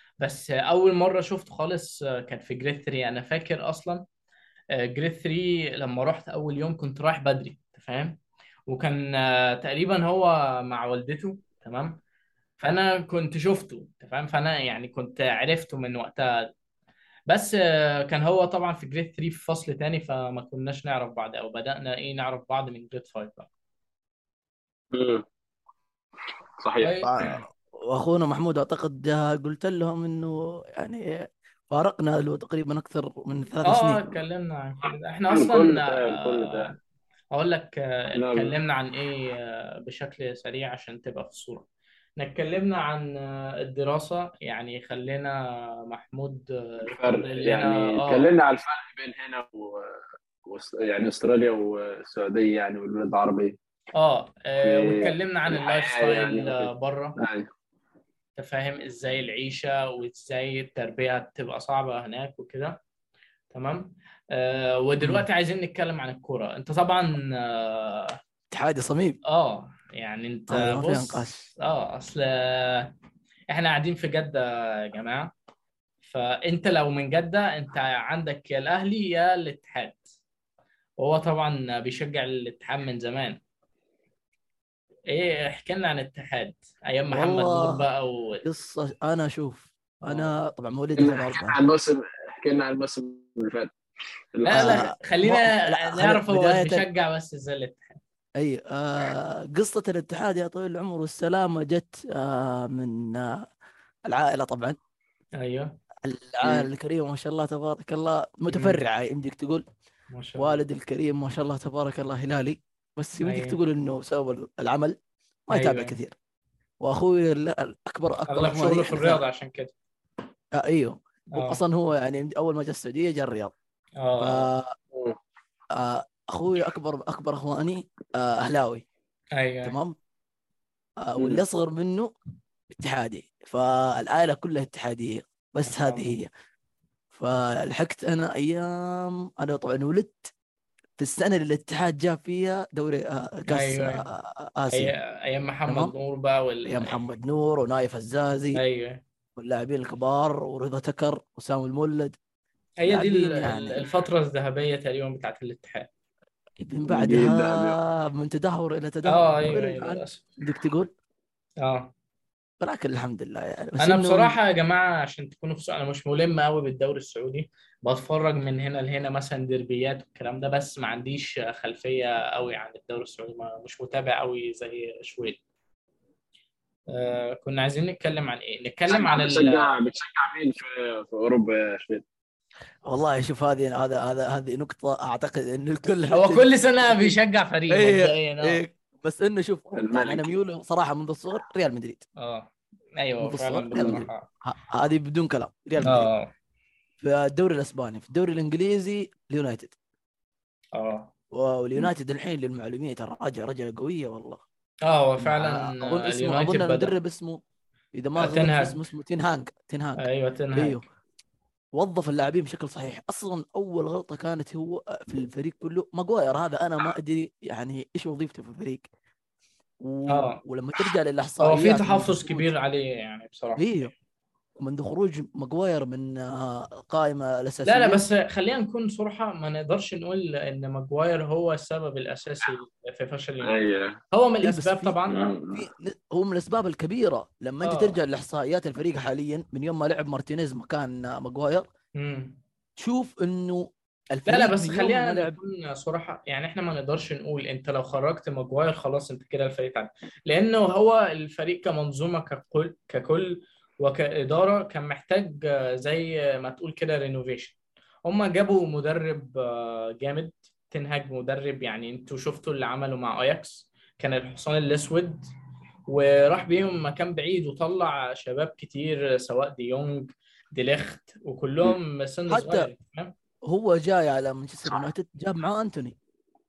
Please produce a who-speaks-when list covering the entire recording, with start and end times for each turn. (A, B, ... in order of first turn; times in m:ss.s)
0:00.2-0:04.0 A
0:04.7-0:12.0 A
0:12.6-0:16.5 A
0:17.3-0:23.5 A
0:24.9-0:25.2 B
0:26.6-0:27.0 B
0:26.8-0:27.3 A
0:27.0-0:34.1 C
0:33.6-0:36.8 A
0:35.3-0:36.7 B
0:37.3-0:41.7 A
0:38.2-0:38.5 B
0:42.2-0:45.4 A
0:45.9-0:48.2 A
0:46.8-0:53.6 B
0:54.0-0:57.2 A
0:54.6-0:57.5 B
0:58.4-1:02.8 A
1:03.5-1:08.2 A
1:05.0-1:05.2 C
1:08.5-1:09.2 C
1:09.3-1:12.9 A
1:10.5-1:11.5 C
1:13.5-1:15.3 A
1:16.0-1:20.0 A
1:21.0-1:23.4 A
1:25.1-1:28.4 A
1:27.1-1:27.9 C
1:28.4-1:31.6 C
1:30.0-1:30.3 A
1:31.0-1:33.7 B
1:34.3-1:34.8 B
1:34.4-1:38.0 A
1:34.5-1:36.8 C
1:38.4-1:43.5 C
1:44.1-1:44.8 C
1:45.4-1:45.7 A
1:46.0-1:49.6 C
1:46.4-1:46.7 B
1:48.5-1:48.8 A
1:50.1-1:50.6 A
1:50.4-1:55.0 C
1:53.2-1:53.6 A
1:55.5-1:56.2 C
1:55.5-1:56.0 A
1:56.8-1:59.2 C
1:58.3-1:59.7 A
2:00.5-2:03.5 C
2:01.3-2:01.6 A
2:04.0-2:04.5 A
2:04.2-2:04.8 C
2:04.9-2:05.2 B
2:05.8-2:08.8 C
2:09.3-2:09.8 A
2:09.6-2:10.0 C
2:11.0-2:12.1 C
2:12.7-2:16.3 C
2:15.6-2:16.2 A
2:17.1-2:20.3 C
2:21.0-2:24.9 C
2:23.5-2:24.0 A
2:24.7-2:27.0 A
2:25.7-2:25.9 C
2:26.6-2:28.6 C
2:28.5-2:29.0 A
2:29.4-2:32.2 C
2:32.8-2:35.9 A
2:32.9-2:33.8 C
2:36.6-2:40.9 C
2:36.8-2:37.8 B
2:39.1-2:40.2 A
2:41.6-2:41.9 A
2:42.6-2:44.4 C
2:43.8-2:55.4 A
2:56.9-2:59.7 A
2:58.9-3:02.0 B
3:02.9-3:07.2 C
3:06.1-3:08.6 A
3:07.7-3:12.0 C
3:09.7-3:10.4 B
3:12.2-3:14.2 A
3:13.2-3:16.1 C
3:15.8-3:16.3 A
3:17.0-3:19.8 C
3:20.7-3:21.1 A
3:21.3-3:24.4 C
3:24.8-3:26.9 A
3:25.2-3:27.4 C
3:27.9-3:30.0 C
3:28.2-3:28.8 A
3:30.0-3:30.8 A
3:30.5-3:30.8 C
3:31.7-3:38.9 C
3:39.8-3:42.5 C
3:40.1-3:40.4 A
3:41.4-3:43.9 A
3:43.6-3:43.9 C
3:44.6-3:48.0 C
3:47.6-3:53.6 A
3:53.4-3:54.0 B
3:54.1-3:55.2 A
3:54.4-3:55.0 C
3:55.1-3:55.7 B
3:55.5-4:01.6 C
3:57.6-3:58.0 A
4:02.0-4:02.4 A
4:02.8-4:05.4 C
4:04.2-4:25.3 A
4:25.9-4:33.1 A
4:32.3-4:32.7 C
4:33.4-4:36.0 C